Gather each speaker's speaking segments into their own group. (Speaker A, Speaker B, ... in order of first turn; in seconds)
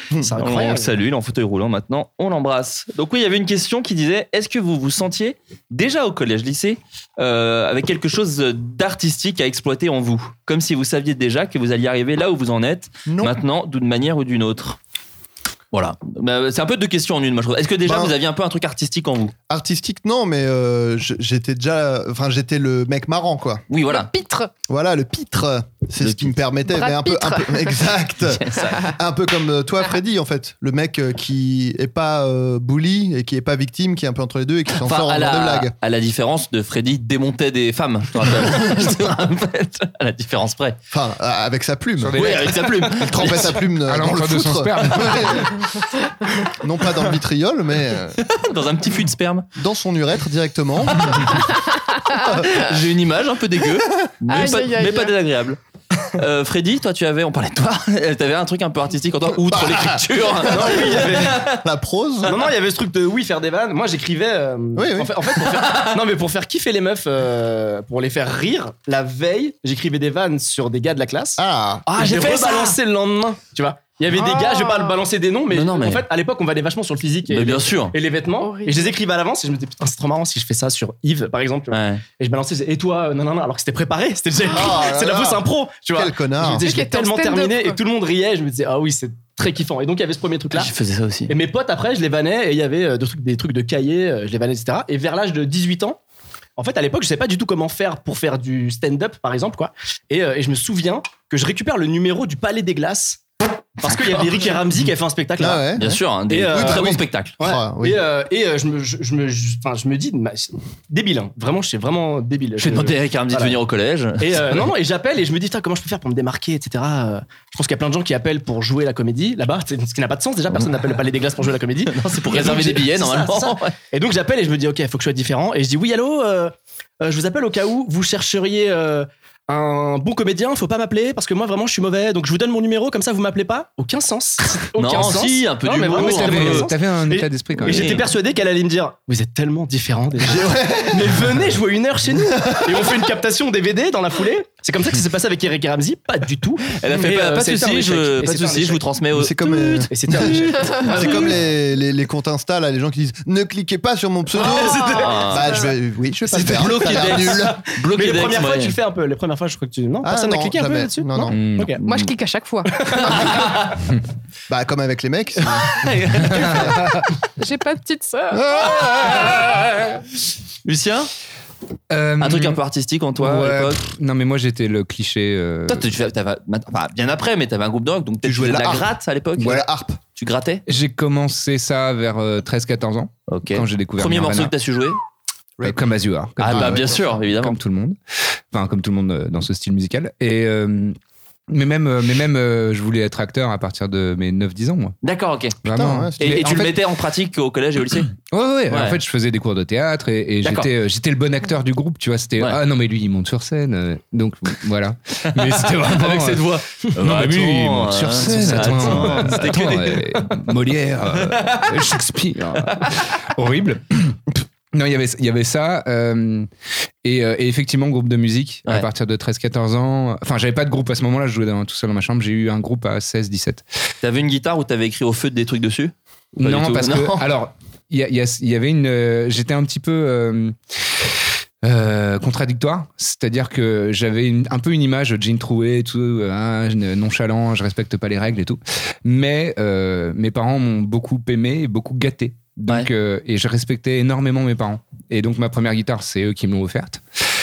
Speaker A: 0.2-0.9, 60.5-61.5, 62.2-90.7, 91.3-96.0, 96.6-103.2, 103.8-105.7, 106.3-113.6, 114.2-148.8, 149.9-151.4, 154.4-155.1, 156.3-161.8, 162.8-163.3, 208.3-209.4
Speaker B: 0.4-14.8, 15.7-19.3, 23.7-24.1, 26.0-26.3, 28.3-28.9, 34.8-40.8, 42.1-43.6, 48.2-49.5, 51.0-51.3, 52.2-55.6, 56.1-61.6, 65.4-66.0, 71.9-72.8, 75.5-76.1, 77.3-77.9, 81.7-82.0, 90.5-91.3, 105.8-107.3, 112.6-114.6, 120.5-121.0, 121.8-123.7, 134.8-136.7, 137.6-138.1, 146.8-149.8, 154.9-155.6, 156.3-158.8, 161.8-162.1, 163.2-163.7, 165.7-166.7, 170.6-171.1, 172.2-173.8, 175.7-179.6, 180.2-180.6, 183.3-185.0, 186.4-187.6, 195.0-195.6, 196.2-198.1, 198.7-199.0, 200.4-200.7, 205.4-210.2, 211.3-211.7, 224.0-227.2
Speaker C: 13.1-13.3, 17.8-18.1, 19.5-23.6, 24.7-35.7, 38.4-38.9, 40.9-42.2, 43.0-45.5, 46.5-48.2, 49.5-51.3, 59.5-62.4, 64.7-65.2, 71.4-71.9, 84.5-86.6, 105.4-106.0, 106.5-108.0, 140.2-141.2, 142.4-142.9, 149.1-157.6, 160.0-161.4, 164.5-166.8, 178.2-178.9, 179.4-180.0, 186.4-187.1, 195.7-196.5
Speaker D: 23.9-24.5, 26.6-27.8, 51.5-52.5, 54.3-55.1, 74.1-75.0, 78.4-79.0, 86.6-87.8, 154.4-155.1, 161.8-163.1, 167.4-169.3
Speaker E: 42.0-45.5, 135.9-138.0, 161.3-161.8, 166.2-166.7, 168.5-169.6, 171.9-172.6, 173.2-175.9, 180.7-184.5, 185.6-188.0, 188.5-190.9, 191.5-194.9, 195.6-196.8, 198.2-214.2, 214.7-216.5, 217.0-223.6, 226.4-230.6, 231.6-247.0